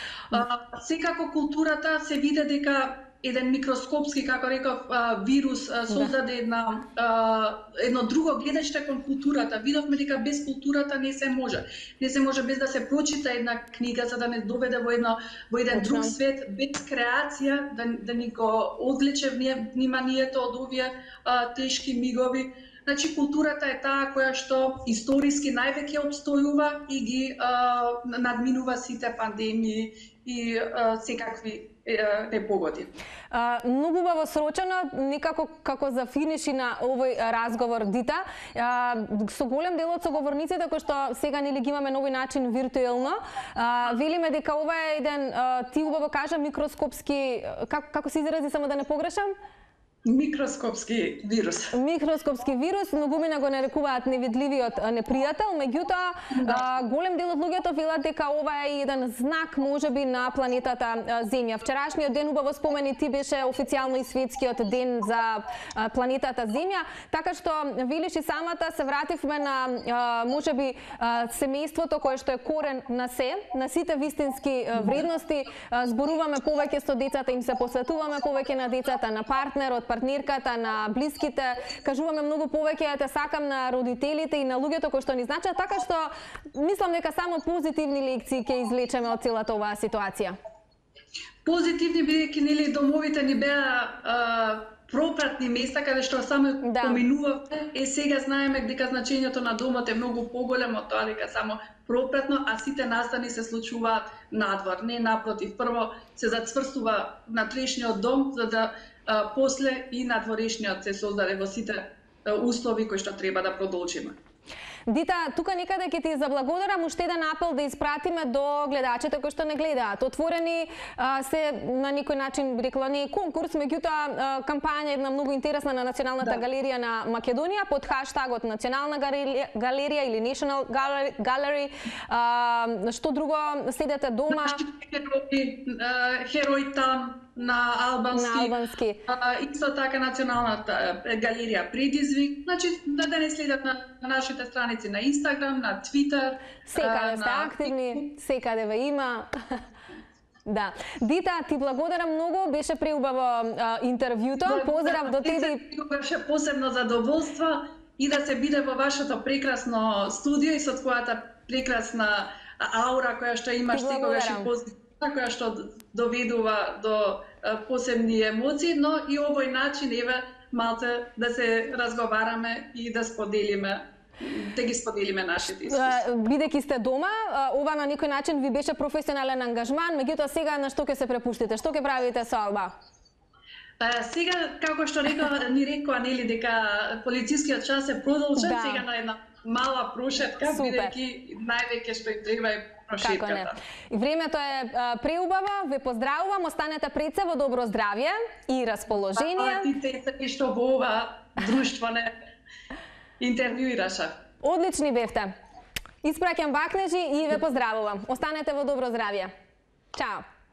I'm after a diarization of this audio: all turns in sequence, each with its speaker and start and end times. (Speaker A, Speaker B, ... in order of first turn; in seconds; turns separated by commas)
Speaker A: 0.3-32.9, Speaker B: 15.7-16.1, Speaker B: 33.3-49.3, Speaker A: 50.0-51.7, Speaker B: 51.7-90.4, Speaker A: 91.4-114.2, Speaker B: 96.6-97.0, Speaker B: 114.9-134.6, Speaker A: 134.3-138.5, Speaker B: 138.1-139.0, Speaker A: 139.1-148.0, Speaker B: 146.7-149.6, Speaker B: 150.5-155.6, Speaker A: 154.4-176.0, Speaker B: 163.7-164.5, Speaker B: 175.7-182.8, Speaker A: 183.8-193.6, Speaker B: 188.4-188.8, Speaker B: 190.5-190.9, Speaker B: 193.0-199.7, Speaker A: 199.2-202.1, Speaker A: 203.2-204.1, Speaker B: 204.4-205.3, Speaker B: 206.0-209.3, Speaker B: 209.9-210.2